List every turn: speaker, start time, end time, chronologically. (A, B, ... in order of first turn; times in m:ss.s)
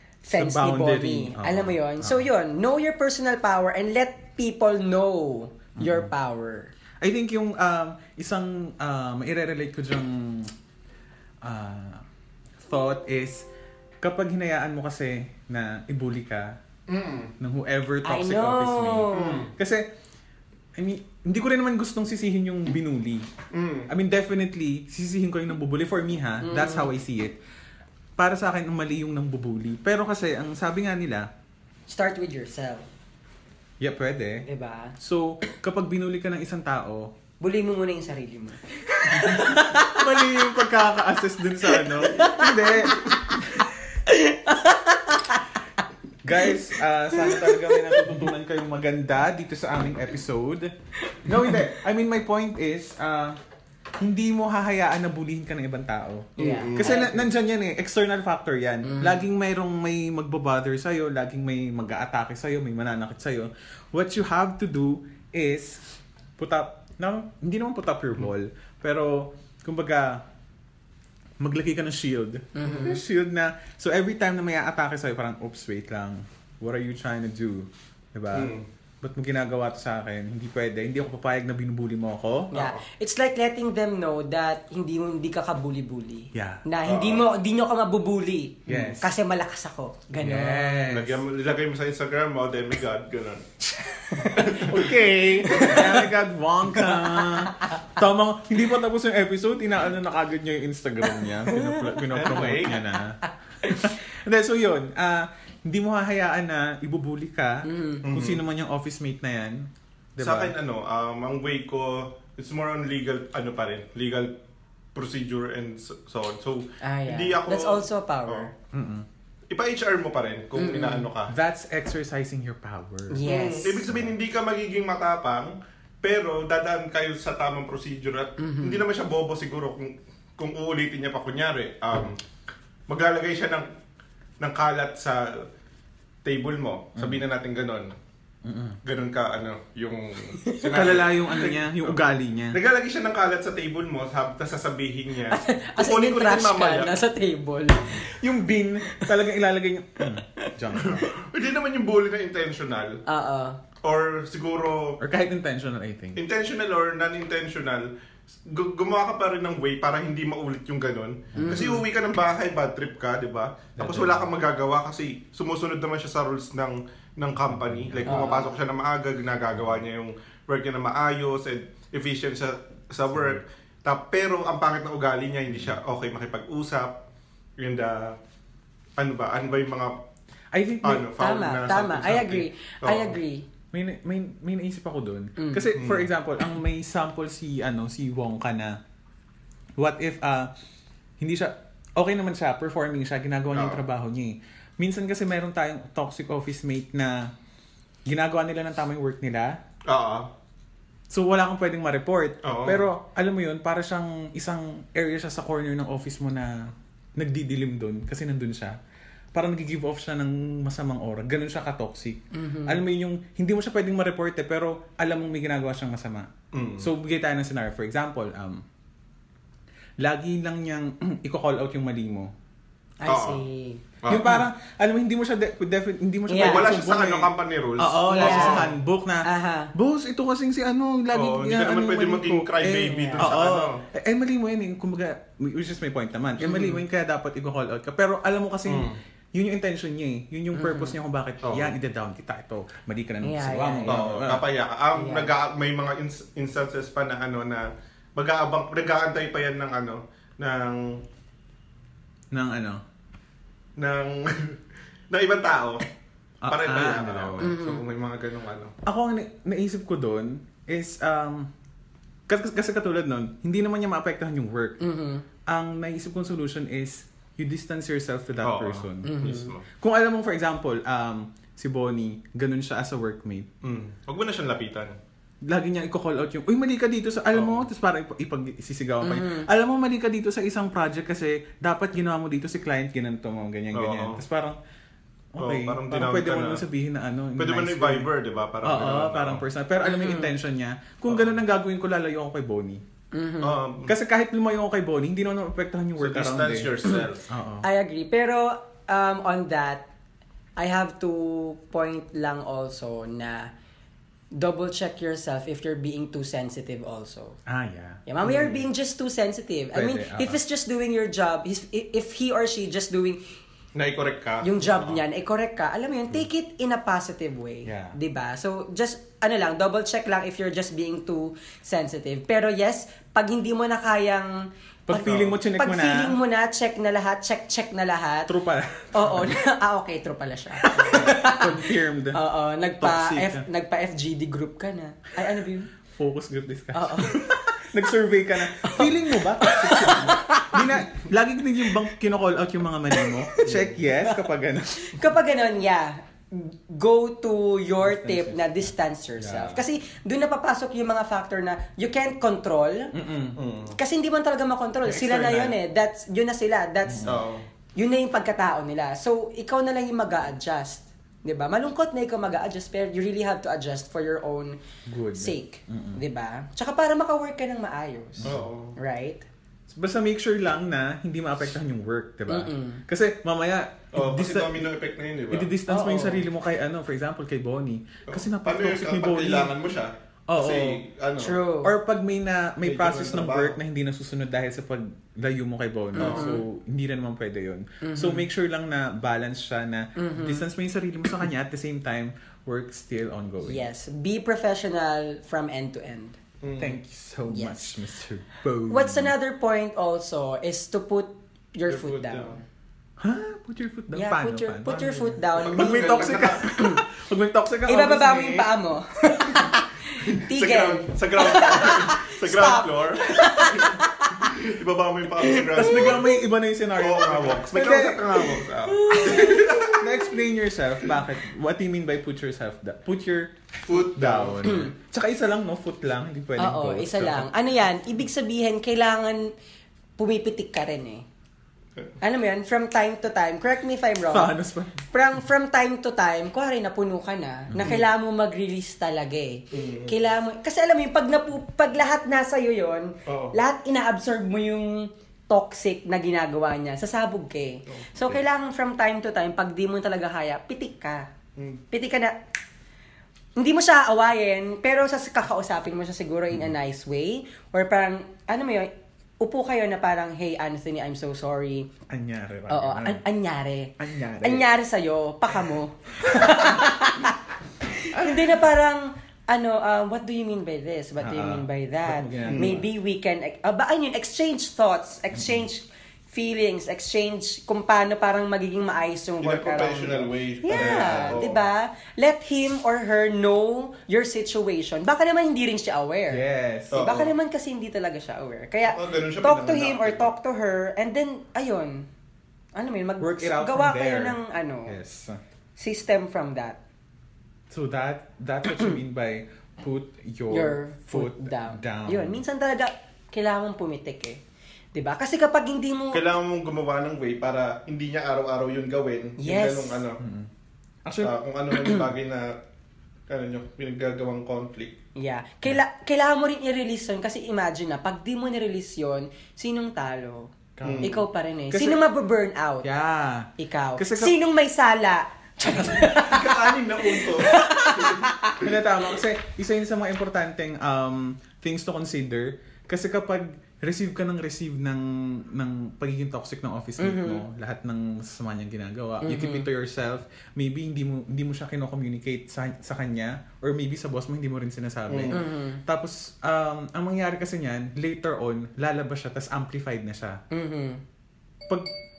0:00.2-0:06.7 A
0:00.3-0:02.3 B
0:05.8-0:06.1 B
0:07.0-0:10.5 B
0:11.4-0:12.0 B
0:12.6-0:13.4 B
0:14.0-0:16.6 B
0:16.9-0:17.3 C
0:17.4-0:19.9 B
0:18.0-0:19.5 A
0:19.1-0:19.5 C
0:20.8-0:23.3 B
0:23.5-0:23.9 C
0:23.9-0:27.4 B
0:26.4-0:26.9 A
0:28.2-0:31.3 B
0:31.9-0:32.9 A
0:33.8-0:34.4 B
0:34.4-0:34.9 A
0:35.0-0:37.1 B
0:37.4-0:40.5 A
0:39.1-0:43.8 B
0:41.6-0:43.4 A
0:44.1-0:45.4 A
0:46.2-0:53.4 B
0:47.1-0:48.1 A
0:54.0-1:10.2 B
0:56.4-0:57.2 A
0:56.4-0:57.0 C
0:58.8-0:59.2 A
1:11.4-1:22.6 B
1:12.5-1:13.0 A
1:18.3-1:18.6 C
1:22.5-1:30.9 A
1:22.5-1:22.8 C
1:26.3-1:26.6 B
1:26.8-1:27.3 C
1:28.7-1:29.1 B
1:30.2-1:31.2 B
1:30.8-1:33.6 C
1:34.1-1:34.6 A
1:34.2-1:36.0 C
1:34.4-1:50.5 B
1:36.8-1:37.4 A
1:41.4-1:42.0 A
1:42.1-1:42.8 C
1:43.2-1:43.9 A
1:47.6-1:48.0 A
1:48.0-1:48.4 C
1:50.2-1:54.3 C
1:54.9-1:58.5 C
1:56.8-1:58.5 A
1:58.7-1:59.0 B
1:59.5-2:01.3 C
2:00.6-2:01.1 A
2:01.3-2:04.1 B
2:03.1-2:03.8 A
2:03.2-2:12.2 C
2:08.4-2:08.8 A
2:12.9-2:13.7 C
2:14.4-2:15.5 C
2:16.2-2:17.9 C
2:17.0-2:17.2 B
2:18.4-2:18.8 B
2:18.8-2:22.0 C
2:20.6-2:22.6 B
2:22.5-2:27.0 C
2:25.3-2:28.1 A
2:27.9-2:31.1 B
2:30.8-2:33.0 C
2:33.0-2:33.6 A
2:33.8-2:35.0 C
2:35.0-2:36.2 B
2:36.2-2:37.9 C
2:38.4-2:57.0 C
2:41.3-2:41.7 B
2:41.4-2:41.8 A
2:43.8-2:44.3 B
2:47.5-2:48.3 B
2:48.0-2:48.5 A
2:53.1-2:53.4 B
2:57.6-2:58.2 C
2:59.0-2:59.9 C
3:00.5-3:01.1 B
3:00.8-3:03.2 C
3:01.1-3:03.4 A
3:03.7-3:08.8 B
3:05.4-3:05.7 A
3:05.7-3:06.1 C
3:09.8-3:10.5 B
3:11.2-3:17.3 B
3:13.5-3:13.8 C
3:18.0-3:19.6 B
3:19.9-3:20.3 C
3:21.1-3:28.8 B
3:22.4-3:22.8 C
3:29.3-3:38.6 B
3:32.3-3:32.8 A
3:36.5-3:36.9 C
3:40.0-3:42.3 B
3:43.0-3:43.8 A
3:43.1-3:43.4 C
3:44.0-3:44.4 C
3:44.1-4:04.4 B
3:46.3-3:46.7 A
3:46.4-3:48.7 C
3:48.1-3:48.7 A
3:49.2-3:49.7 A
3:51.1-3:53.8 C
3:52.9-3:53.3 A
3:56.4-3:56.8 A
3:58.7-3:59.0 C
4:00.5-4:00.9 A
4:01.4-4:01.7 C
4:03.2-4:04.0 A
4:03.9-4:11.0 C
4:04.9-4:05.3 A
4:12.3-4:12.8 B
4:13.8-4:14.6 C
4:15.1-4:15.8 C
4:16.4-4:17.5 B
4:16.5-4:18.7 C
4:17.4-4:17.8 A
4:18.8-4:21.5 B
4:22.3-4:24.8 B
4:24.8-4:25.2 A
4:25.4-4:33.5 B
4:28.4-4:29.6 C
4:29.0-4:29.5 A
4:33.6-4:35.0 C
4:35.4-4:44.6 B
4:37.3-4:37.6 C
4:39.0-4:39.5 A
4:43.7-4:44.2 C
4:45.3-4:48.1 B
4:45.4-4:46.6 C
4:47.4-4:49.4 C
4:48.6-4:52.8 B
4:49.8-4:50.3 A
4:53.1-4:53.6 A
4:53.4-4:53.9 C
4:53.9-4:57.6 B
4:56.0-4:57.2 C
4:57.6-4:59.9 A
5:00.6-5:03.5 A
5:04.3-5:07.4 A
5:07.4-5:08.0 B
5:08.1-5:13.2 A
5:08.2-5:08.6 C
5:09.7-5:10.4 B
5:13.7-5:15.0 C
5:14.4-5:28.3 A
5:17.6-5:18.0 B
5:24.9-5:26.2 B
5:28.3-5:29.4 B
5:28.9-5:35.7 A
5:30.6-5:32.2 B
5:32.8-5:33.4 B
5:35.9-5:45.0 B
5:36.7-5:37.2 A
5:38.5-5:40.8 A
5:42.9-5:52.9 A
5:43.4-5:43.7 C
5:47.8-5:49.6 B
5:52.9-5:53.4 B
5:53.4-5:53.8 C
5:53.8-5:57.2 A
5:54.8-5:55.6 B
5:56.8-5:57.2 B
5:57.0-5:57.4 C
5:57.8-6:04.6 A
6:04.8-6:06.0 B
6:05.1-6:09.2 A
6:08.2-6:08.5 B
6:08.2-6:08.8 C
6:09.7-6:14.7 B
6:12.3-6:12.8 A
6:13.9-6:15.5 C
6:15.3-6:19.5 B
6:15.7-6:16.2 A
6:18.1-6:21.4 C
6:20.3-6:20.8 B
6:21.2-6:21.7 A
6:21.6-6:33.6 B
6:22.6-6:23.6 C
6:25.9-6:26.4 A
6:26.0-6:26.4 C
6:27.8-6:28.3 A
6:30.0-6:30.4 A
6:33.4-6:36.2 A
6:36.4-6:36.8 C
6:36.6-6:39.1 B
6:37.3-6:37.8 A
6:38.7-6:42.4 A
6:41.7-6:42.4 C
6:43.0-6:48.5 B
6:43.9-6:46.8 A
6:45.3-6:46.6 C
6:47.7-6:54.4 A
6:49.1-6:49.4 B
6:50.1-6:56.1 C
6:55.2-6:56.0 A
6:55.5-7:07.3 B
6:56.8-7:00.0 C
6:58.7-6:59.6 A
7:03.6-7:04.5 C
7:04.4-7:04.7 A
7:06.4-7:09.3 A
7:10.0-7:11.0 A
7:12.0-7:14.3 A
7:14.1-7:14.8 B
7:14.9-7:31.1 A
7:17.5-7:17.8 B
7:19.5-7:19.9 C
7:23.1-7:23.4 C
7:27.7-7:28.2 C
7:31.4-7:31.6 C
7:31.7-7:32.2 A
7:33.4-7:41.7 A
7:41.9-7:43.0 B
7:42.5-8:11.9 A
7:43.8-7:44.5 B
7:46.2-7:46.6 B
7:47.9-7:48.4 B
7:51.0-7:52.7 B
7:52.3-7:52.6 C
7:55.2-7:55.4 B
7:59.2-8:01.4 C
8:00.5-8:01.2 B
8:06.1-8:06.8 B
8:06.7-8:07.1 C
8:08.6-8:10.1 C
8:12.5-8:14.7 A
8:13.0-8:15.2 B
8:15.6-8:16.6 A
8:17.5-8:22.2 B
8:18.5-8:18.8 A
8:20.3-8:24.2 A
8:24.7-8:26.0 A
8:25.9-8:30.0 C
8:29.2-8:29.8 A
8:30.0-8:30.3 B
8:30.8-8:31.1 B
8:31.0-8:32.4 C
8:31.6-8:31.8 A
8:33.1-8:34.8 C
8:35.0-8:42.7 A
8:40.6-8:41.8 B
8:40.6-8:41.0 C
8:42.6-8:44.1 B
8:43.4-8:48.4 A
8:45.5-8:45.9 B
8:45.9-8:48.1 C
8:48.4-9:10.2 B
8:56.8-8:57.2 A
8:59.0-8:59.5 A
9:04.9-9:05.2 C
9:05.1-9:05.6 A
9:10.3-9:10.8 A